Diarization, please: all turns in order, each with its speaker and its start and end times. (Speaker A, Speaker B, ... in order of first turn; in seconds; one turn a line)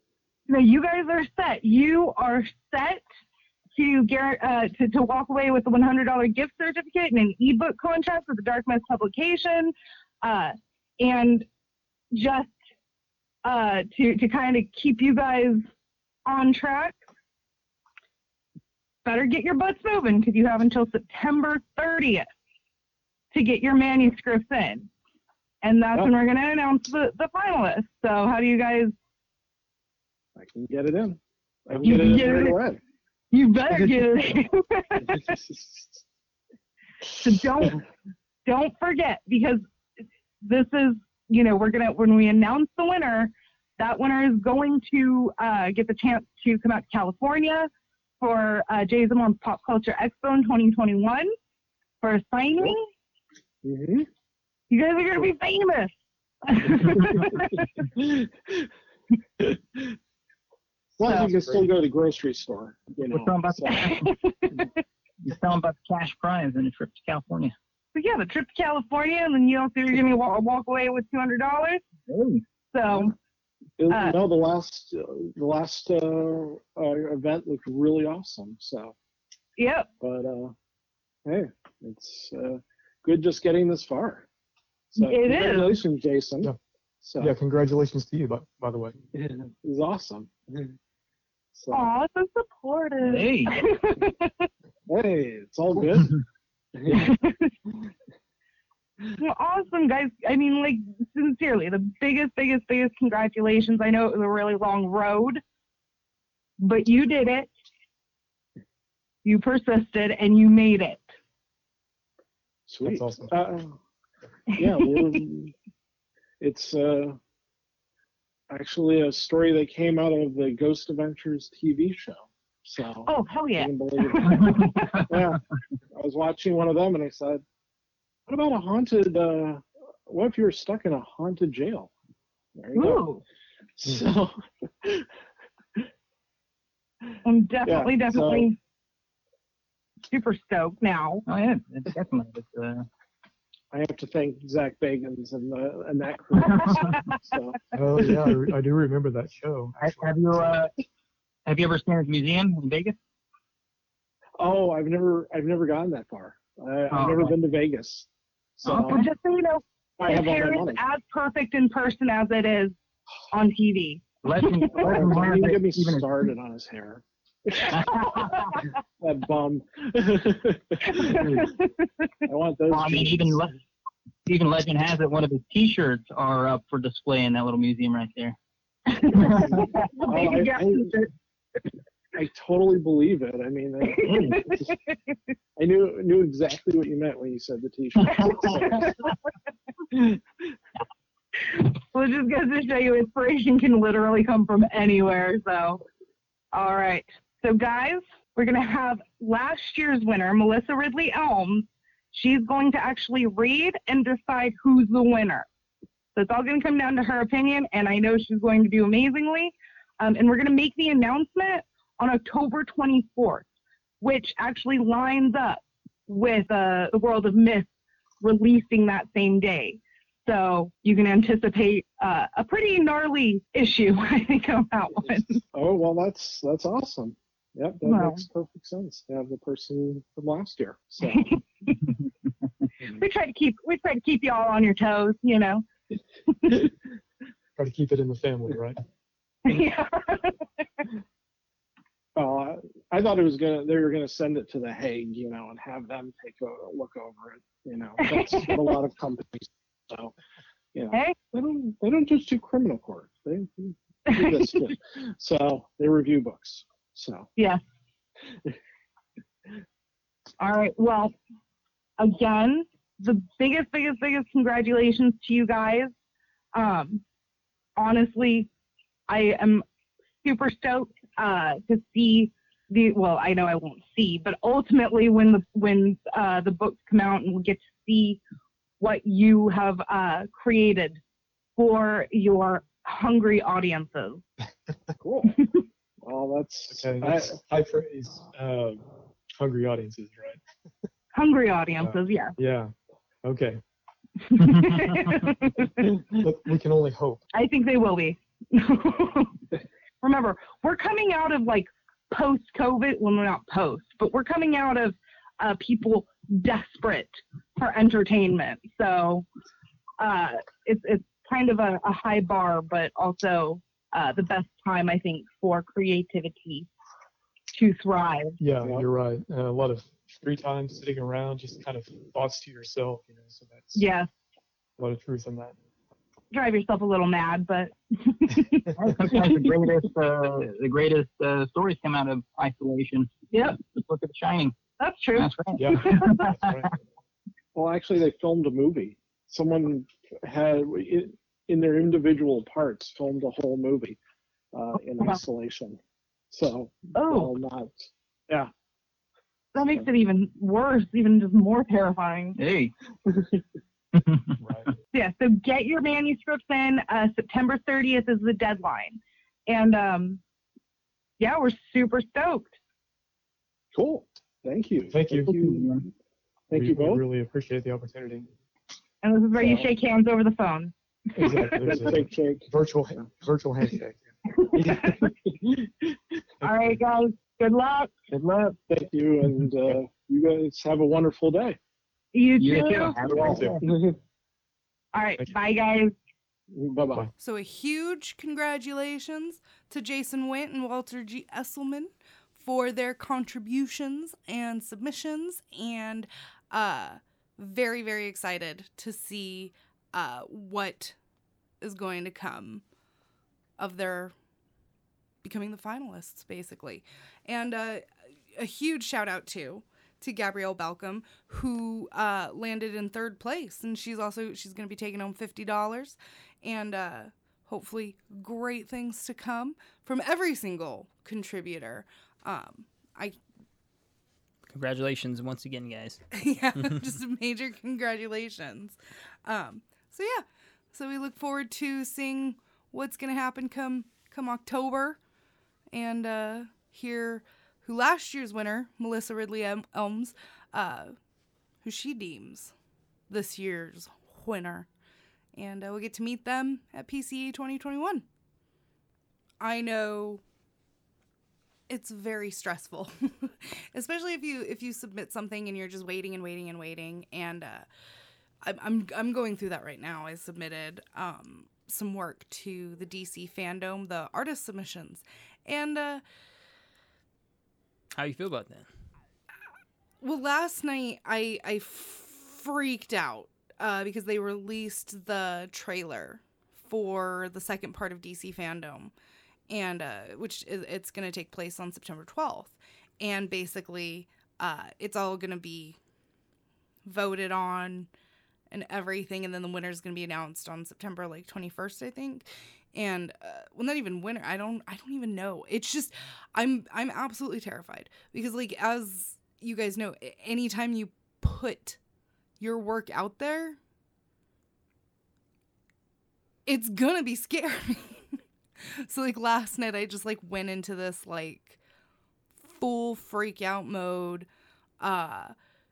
Speaker A: 0.5-3.0
Speaker A: 3.8-11.4
Speaker A: 12.1-12.5
Speaker A: 13.4-15.6
Speaker A: 16.2-17.0
Speaker A: 19.0-22.3
Speaker A: 23.3-24.9
Speaker A: 25.6-28.9
Speaker B: 30.4-32.8
Speaker A: 31.8-32.6
Speaker A: 33.3-35.3
Speaker B: 33.7-34.1
Speaker B: 35.0-36.0
Speaker A: 37.1-37.8
Speaker B: 37.1-37.8
Speaker A: 38.5-39.6
Speaker A: 40.4-47.7
Speaker A: 48.2-51.3
Speaker A: 52.0-52.9
Speaker B: 53.6-54.1
Speaker A: 54.7-55.9
Speaker A: 56.5-57.6
Speaker B: 56.9-58.7
Speaker B: 59.4-60.0
Speaker B: 61.0-63.9
Speaker C: 61.1-61.6
Speaker D: 63.0-64.1
Speaker A: 63.7-64.7
Speaker D: 65.2-67.5
Speaker A: 67.9-71.8
Speaker D: 72.1-72.4
Speaker A: 72.7-73.1
Speaker B: 73.8-78.9
Speaker A: 73.9-74.2
Speaker A: 79.6-79.9
Speaker B: 80.0-80.5
Speaker B: 81.2-84.3
Speaker B: 84.9-87.3
Speaker A: 85.0-85.8
Speaker C: 87.2-89.0
Speaker B: 89.1-90.8
Speaker B: 91.5-91.9
Speaker A: 91.7-94.4
Speaker D: 93.0-93.6
Speaker B: 94.9-96.1
Speaker B: 96.8-97.1
Speaker A: 96.9-97.5
Speaker A: 99.2-105.4
Speaker A: 106.6-107.5
Speaker A: 109.2-111.0
Speaker B: 112.7-113.8
Speaker C: 112.8-113.3
Speaker B: 114.5-115.5
Speaker A: 114.6-115.2
Speaker B: 116.4-117.2
Speaker B: 118.5-125.4
Speaker A: 123.0-125.0
Speaker B: 125.9-127.4
Speaker B: 128.3-131.9
Speaker B: 132.5-133.0
Speaker A: 132.7-133.2
Speaker B: 133.8-135.1
Speaker A: 137.2-138.6
Speaker B: 137.6-138.5
Speaker A: 140.1-141.2
Speaker D: 141.2-142.9
Speaker B: 143.7-148.5
Speaker D: 146.5-147.0
Speaker C: 147.7-150.1
Speaker D: 149.8-150.7
Speaker D: 151.4-153.0
Speaker B: 154.4-159.0
Speaker D: 156.9-157.3
Speaker D: 158.7-159.0
Speaker A: 158.8-162.7
Speaker B: 160.0-160.8
Speaker A: 163.3-164.9
Speaker D: 164.2-166.1
Speaker B: 164.7-168.0
Speaker D: 167.6-168.4
Speaker A: 167.9-168.6
Speaker B: 169.0-171.2
Speaker A: 170.8-171.7
Speaker D: 171.1-171.5
Speaker B: 172.3-173.4
Speaker D: 172.7-173.6
Speaker D: 174.2-178.3
Speaker A: 178.9-181.1
Speaker D: 179.2-179.6
Speaker B: 179.3-181.0
Speaker B: 182.1-184.7
Speaker A: 183.8-184.9
Speaker D: 184.0-184.3
Speaker B: 185.6-189.0
Speaker A: 188.1-189.1
Speaker B: 189.9-190.2
Speaker A: 191.5-195.8
Speaker A: 196.5-205.4
Speaker A: 206.2-213.4
Speaker A: 214.0-217.7
Speaker A: 218.2-225.4
Speaker B: 225.5-231.3
Speaker A: 227.8-228.2
Speaker A: 231.0-231.8
Speaker A: 232.9-235.6
Speaker A: 236.3-236.6
Speaker C: 237.6-238.8
Speaker A: 239.4-240.4
Speaker B: 242.2-250.1
Speaker A: 248.0-248.8
Speaker B: 250.7-257.3
Speaker A: 254.1-254.7
Speaker A: 260.4-261.1
Speaker A: 262.0-265.9
Speaker A: 266.5-267.0
Speaker A: 267.8-268.5
Speaker A: 269.1-269.6
Speaker A: 270.2-278.2
Speaker A: 278.8-281.0
Speaker A: 281.6-284.2
Speaker B: 285.0-285.4
Speaker B: 286.0-287.4
Speaker C: 286.7-288.9
Speaker C: 289.4-290.4
Speaker A: 291.1-292.4
Speaker C: 291.8-292.7
Speaker C: 293.2-293.6
Speaker A: 294.2-295.9
Speaker C: 296.1-297.2
Speaker A: 297.3-299.4
Speaker A: 300.0-309.2
Speaker A: 310.0-316.7
Speaker A: 317.5-318.4
Speaker C: 318.4-323.8
Speaker B: 318.6-318.9
Speaker A: 323.7-324.1
Speaker C: 324.8-325.5
Speaker A: 326.3-328.7
Speaker D: 328.8-333.1
Speaker A: 333.3-333.6
Speaker D: 333.7-334.5
Speaker A: 334.8-336.3
Speaker D: 335.1-336.6
Speaker C: 335.6-336.7
Speaker B: 337.5-344.0
Speaker B: 344.5-345.8
Speaker B: 346.3-348.5
Speaker A: 346.9-347.3
Speaker A: 349.5-352.4
Speaker D: 352.4-352.7
Speaker B: 353.1-353.4
Speaker D: 354.0-354.3
Speaker C: 354.4-354.7
Speaker A: 354.9-360.2
Speaker A: 361.2-362.6
Speaker B: 363.7-365.8
Speaker C: 364.9-365.3
Speaker D: 365.3-365.8
Speaker B: 366.5-367.0
Speaker C: 366.5-368.3
Speaker A: 369.0-371.7
Speaker B: 369.4-369.7
Speaker B: 371.1-372.5
Speaker C: 371.2-374.0
Speaker A: 374.5-375.0
Speaker B: 374.5-375.9
Speaker A: 376.4-377.9
Speaker B: 378.1-381.6
Speaker D: 378.2-378.5
Speaker A: 382.1-383.0
Speaker D: 382.4-383.7
Speaker C: 383.1-383.6
Speaker B: 383.6-384.0
Speaker A: 384.9-385.9
Speaker B: 386.5-387.1
Speaker E: 387.2-400.9
Speaker E: 401.6-402.6
Speaker E: 403.6-404.1
Speaker E: 405.2-423.2
Speaker F: 424.4-426.0
Speaker E: 426.1-435.0
Speaker F: 426.6-426.9
Speaker E: 435.7-440.9
Speaker E: 441.6-442.5
Speaker E: 443.1-444.7
Speaker E: 445.3-448.0
Speaker E: 449.4-450.2
Speaker E: 451.7-457.6
Speaker E: 458.4-466.0
Speaker F: 467.9-468.7
Speaker E: 470.0-478.9
Speaker E: 479.5-485.8
Speaker E: 486.8-487.9
Speaker E: 488.5-501.8
Speaker E: 502.4-503.6
Speaker E: 506.4-511.6
Speaker E: 512.4-514.3
Speaker E: 514.8-515.3